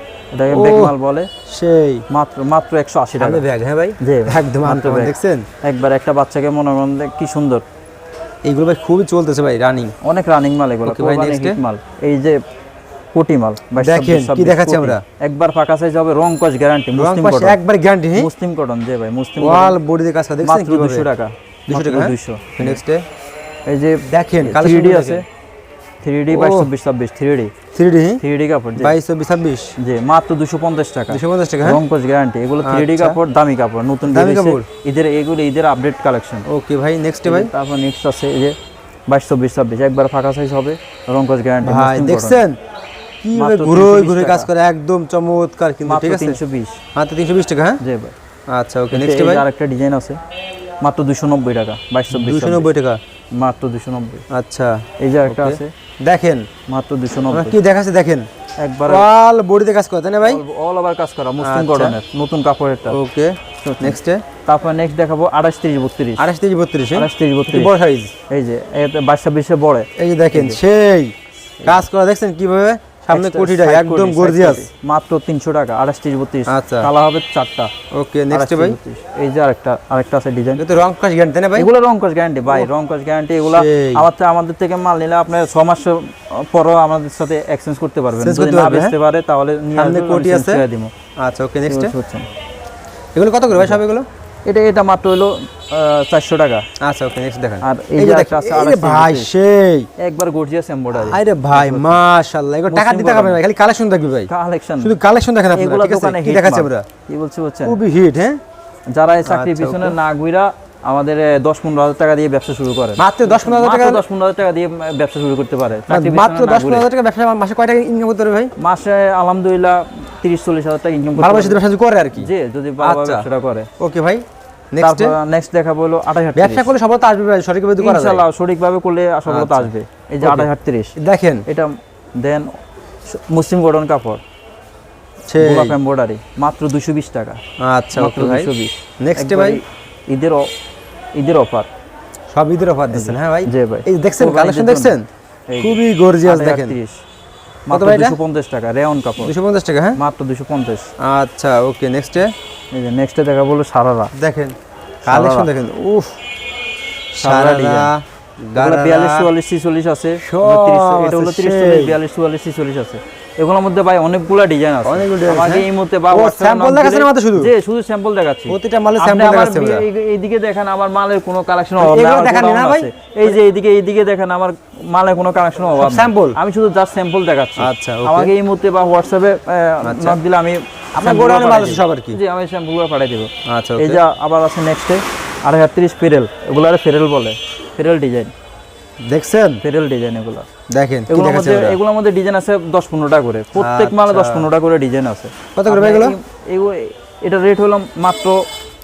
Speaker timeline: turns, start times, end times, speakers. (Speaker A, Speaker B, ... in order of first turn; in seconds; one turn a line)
Speaker A: 0.3-1.3
Speaker B: 0.5-0.9
Speaker B: 1.5-2.0
Speaker A: 2.1-3.4
Speaker B: 3.2-5.5
Speaker A: 4.0-7.7
Speaker B: 8.4-9.9
Speaker A: 10.0-12.4
Speaker B: 10.8-11.6
Speaker A: 13.1-17.6
Speaker B: 13.8-15.0
Speaker B: 16.9-18.3
Speaker A: 18.1-19.8
Speaker B: 19.4-21.1
Speaker A: 20.4-22.8
Speaker B: 21.7-23.1
Speaker A: 23.7-25.3
Speaker B: 24.1-25.2
Speaker A: 26.0-27.5
Speaker B: 26.3-26.7
Speaker B: 27.7-28.2
Speaker A: 28.2-28.9
Speaker B: 28.8-29.7
Speaker A: 29.8-36.5
Speaker B: 31.1-31.8
Speaker B: 32.6-33.2
Speaker B: 34.1-34.7
Speaker B: 36.5-37.5
Speaker A: 37.2-38.6
Speaker A: 39.1-42.4
Speaker B: 41.6-42.6
Speaker B: 43.2-46.4
Speaker A: 43.4-44.5
Speaker A: 45.9-46.8
Speaker B: 47.0-47.8
Speaker A: 47.8-48.1
Speaker B: 48.5-49.5
Speaker A: 48.9-50.2
Speaker A: 50.8-52.7
Speaker B: 52.1-53.0
Speaker A: 53.3-54.2
Speaker B: 54.3-56.5
Speaker A: 55.0-55.7
Speaker A: 56.7-57.6
Speaker B: 57.3-58.3
Speaker A: 58.6-59.0
Speaker B: 58.9-60.4
Speaker A: 60.2-63.0
Speaker B: 61.4-62.0
Speaker B: 62.9-64.2
Speaker A: 63.6-66.2
Speaker B: 66.2-68.1
Speaker A: 67.0-67.7
Speaker A: 68.3-70.6
Speaker B: 70.0-71.1
Speaker B: 71.6-74.7
Speaker A: 73.1-77.7
Speaker B: 76.5-76.9
Speaker B: 77.9-78.8
Speaker A: 78.3-80.6
Speaker B: 80.6-81.7
Speaker A: 81.5-90.9
Speaker B: 83.5-84.1
Speaker B: 88.2-88.9
Speaker B: 89.8-90.6
Speaker B: 91.2-92.0
Speaker A: 91.7-92.3
Speaker B: 93.1-94.1
Speaker A: 93.5-93.8
Speaker A: 94.5-96.7
Speaker B: 96.8-99.9
Speaker A: 97.6-99.3
Speaker A: 100.0-102.0
Speaker B: 100.9-106.9
Speaker A: 102.7-103.4
Speaker A: 104.3-105.0
Speaker A: 105.5-107.8
Speaker B: 107.7-108.4
Speaker A: 108.9-116.9
Speaker B: 109.2-110.0
Speaker B: 113.0-114.0
Speaker B: 115.9-118.5
Speaker A: 118.6-121.6
Speaker B: 121.2-123.3
Speaker A: 122.2-123.7
Speaker B: 123.8-125.2
Speaker A: 124.8-126.7
Speaker B: 126.3-128.2
Speaker A: 127.8-131.0
Speaker B: 129.3-131.4
Speaker A: 131.5-132.5
Speaker A: 133.1-134.2
Speaker B: 135.3-135.8
Speaker A: 135.4-137.4
Speaker B: 137.6-139.6
Speaker A: 138.0-140.5
Speaker A: 141.2-141.7
Speaker B: 142.3-145.1
Speaker A: 142.9-144.9
Speaker A: 145.5-147.0
Speaker B: 145.6-146.8
Speaker A: 147.7-149.3
Speaker B: 147.7-148.2
Speaker B: 149.2-150.0
Speaker A: 150.0-150.9
Speaker B: 151.0-152.3
Speaker A: 152.7-154.1
Speaker B: 154.2-154.6
Speaker A: 155.1-155.5
Speaker B: 155.1-156.2
Speaker B: 157.1-159.3
Speaker A: 157.2-157.9
Speaker A: 158.6-188.3
Speaker B: 160.2-162.0
Speaker B: 164.8-167.5
Speaker B: 168.5-169.9
Speaker B: 171.8-173.4
Speaker B: 175.8-176.4
Speaker B: 177.6-178.3
Speaker B: 179.8-180.2
Speaker B: 181.0-182.2
Speaker B: 183.5-184.0
Speaker B: 189.0-189.6
Speaker A: 189.6-190.5
Speaker B: 190.7-191.8
Speaker A: 191.1-198.4
Speaker B: 193.6-194.5
Speaker B: 195.6-196.2